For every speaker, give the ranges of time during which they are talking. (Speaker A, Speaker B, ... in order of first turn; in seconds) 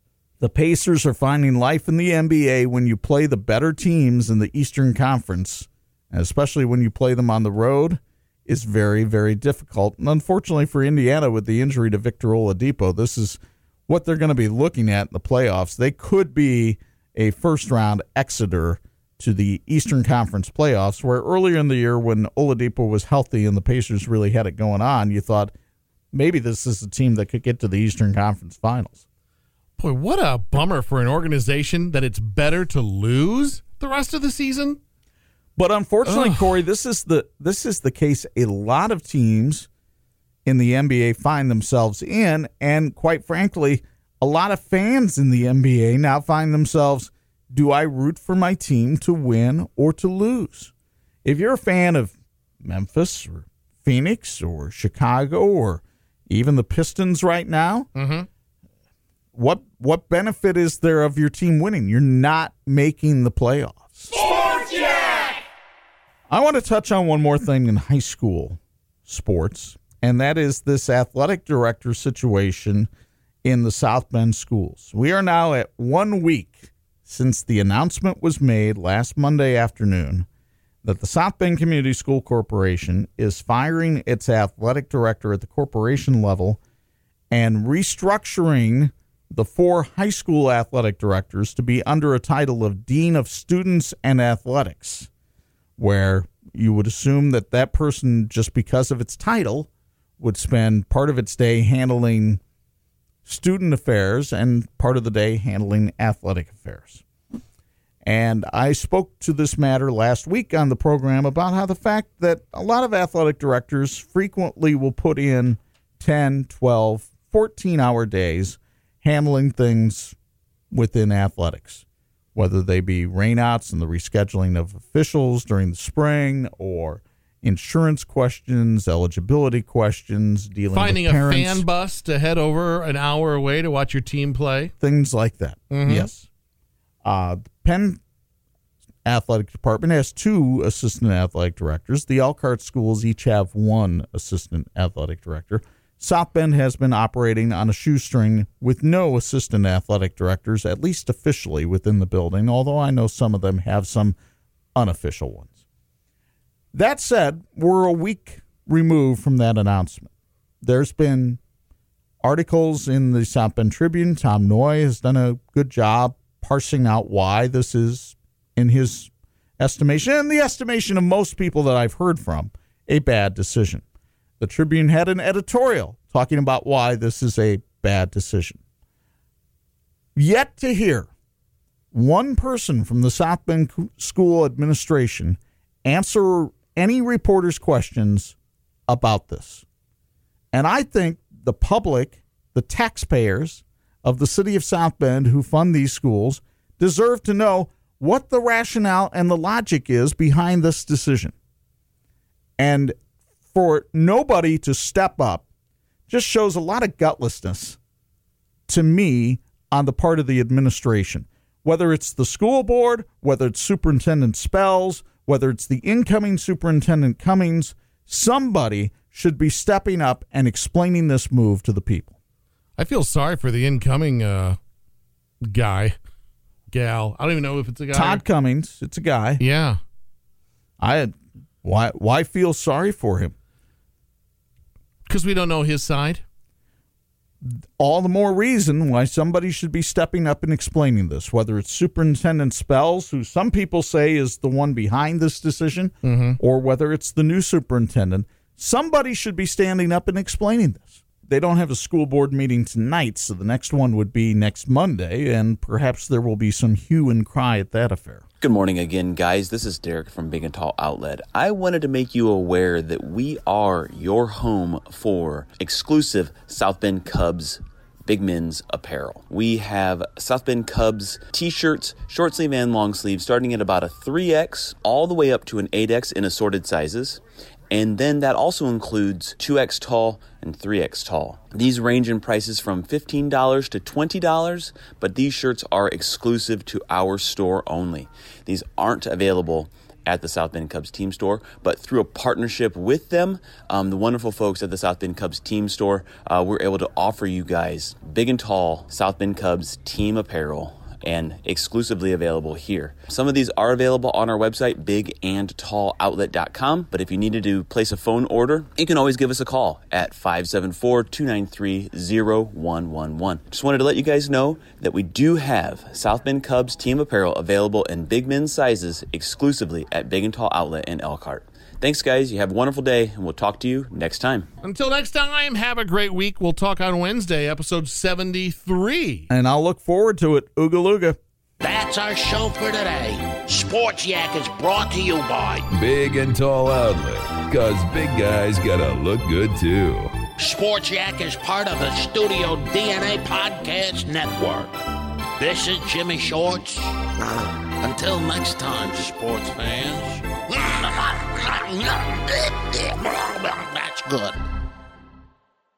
Speaker A: 0.4-25.5, 26.1-29.0, 35.5-39.7, 40.4-50.7, 51.2-57.9, 59.3-64.2, 66.3-72.9, 73.4-80.3, 80.8-86.6, 87.3-95.1, 95.8-102.4, 103.2-107.0, 108.0-120.2, 120.7-131.6, 134.8-136.3, 137.0-138.0, 139.0-154.2, 154.7-155.6, 156.7-160.1, 160.6-161.4, 162.2-173.8, 174.4-178.6, 180.2-181.1, 181.9-188.3, 188.9-189.6, 190.5-201.3, 202.6-203.0, 203.5-205.4, 206.1-207.8, 208.7-222.1, 227.9-229.4, 230.8-233.3, 237.4-258.2, 329.3-331.2
Speaker B: 29.8-34.8, 36.0-36.5, 58.0-58.3, 130.7-134.7, 135.7-136.1, 222.8-224.6, 225.4-225.9, 226.7-228.2, 229.4-229.8, 235.1-236.2, 246.0-246.4, 324.6-329.3
Speaker C: 258.4-324.5
Speaker D: 331.6-335.7, 340.4-344.7, 345.4-354.4
Speaker E: 335.7-340.2